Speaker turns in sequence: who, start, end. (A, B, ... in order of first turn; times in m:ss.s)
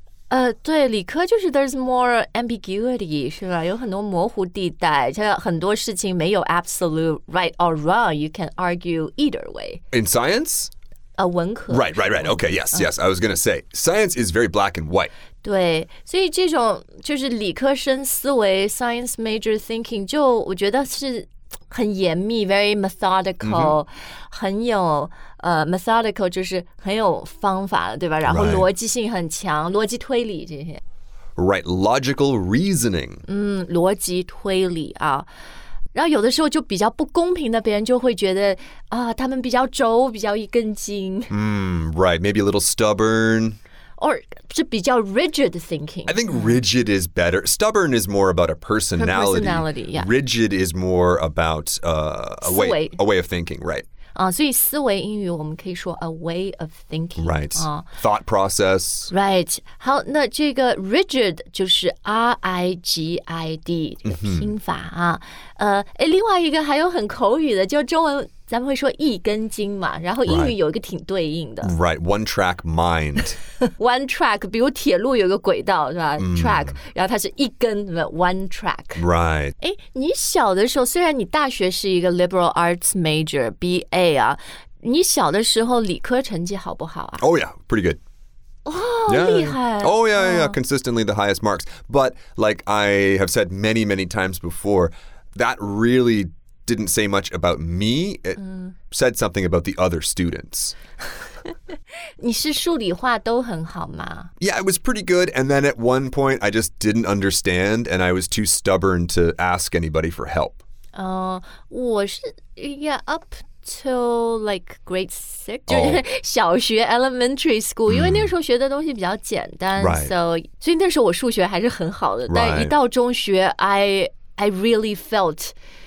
0:00.3-0:09.8 A
0:09.9-0:10.7 B
0:11.2-0:12.9 A
0:11.7-0:15.1 B
0:15.4-0:30.8 A
0:23.4-0:23.8 B
0:28.2-0:28.7 B
0:31.4-0:33.2 B
0:33.3-0:35.3 A
0:35.9-0:41.3 A
0:41.3-0:43.6 B
0:44.0-0:46.6 A
0:46.1-0:53.8 B
0:49.0-0:50.1 A
0:52.4-0:53.0 A
0:54.2-0:57.9 A
0:57.2-0:59.1 B
0:59.1-1:11.7 A
1:04.0-1:04.5 B
1:10.2-1:10.6 B
1:11.6-1:13.4 B
1:13.6-1:19.0 A
1:16.2-1:16.8 B
1:19.0-1:19.6 B
1:19.6-1:27.2 A
1:27.2-1:28.0 B
1:28.7-1:30.6 A
1:29.1-1:38.4 B
1:38.4-1:38.7 A
1:38.9-1:40.8 B
1:42.2-1:44.3 A
1:44.4-1:50.6 B
1:51.0-2:05.5 A
1:55.7-1:56.0 B
1:57.9-1:58.3 B
1:59.8-2:00.1 B
2:02.3-2:02.7 B